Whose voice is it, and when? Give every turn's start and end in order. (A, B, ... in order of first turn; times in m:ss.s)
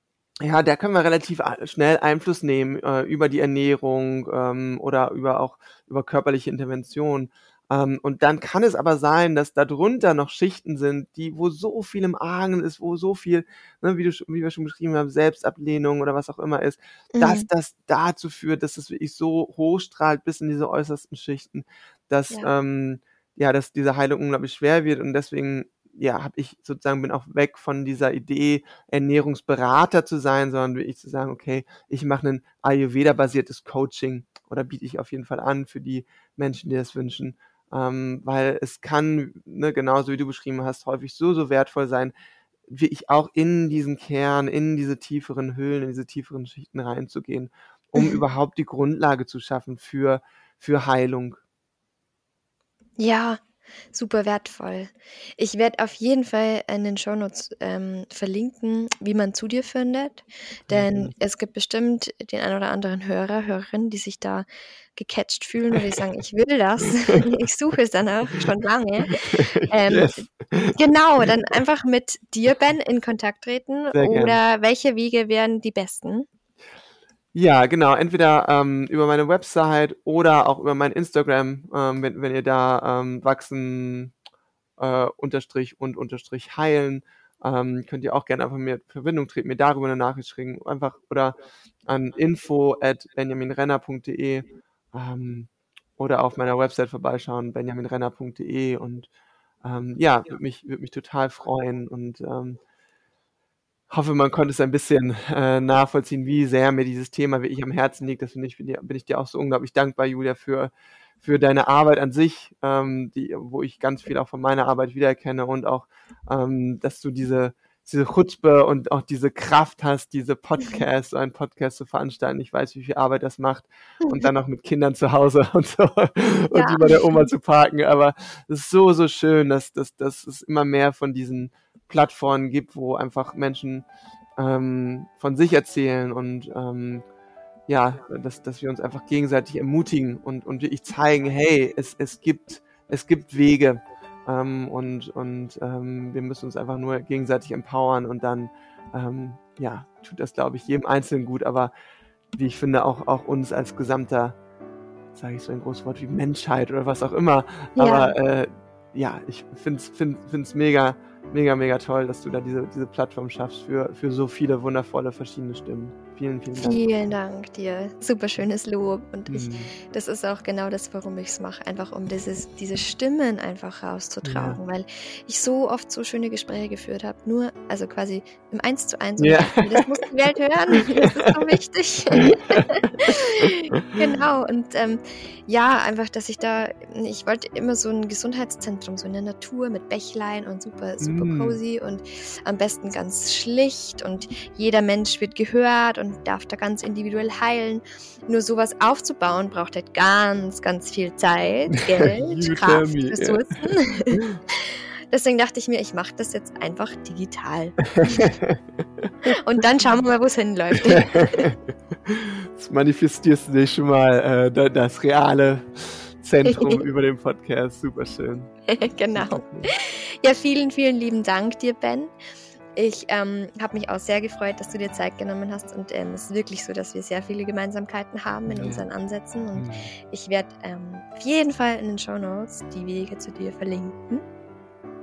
0:00.4-0:42.1 A
0:17.1-0:17.5 B
0:42.7-0:51.4 A
0:53.0-1:16.3 B
1:00.7-1:01.1 A
1:09.1-1:11.2 A
1:13.9-1:14.4 A
1:17.3-1:24.1 A
1:24.8-1:31.3 A
1:31.8-1:39.1 A
1:39.6-1:42.6 A
1:43.9-1:50.7 A
1:51.2-2:17.0 A
2:04.0-2:04.3 B
2:06.5-2:07.2 B
2:17.7-2:31.7 A
2:32.3-2:34.4 A
2:35.1-2:46.9 A
2:37.8-2:38.2 B
2:46.5-3:28.3 B
2:49.3-2:49.7 A
2:54.2-2:54.6 A
2:59.2-2:59.9 A
3:00.7-3:01.3 A
3:02.1-3:03.5 A
3:11.0-3:11.6 A
3:21.7-3:23.4 A
3:24.1-3:24.4 A
3:27.8-3:29.3 A
3:29.2-3:31.5 B
3:30.7-3:38.5 A
3:36.4-3:36.8 B
3:38.7-3:42.1 B
3:39.1-3:39.7 A
3:42.8-3:54.2 B
3:48.5-3:48.8 A
3:49.6-3:49.9 A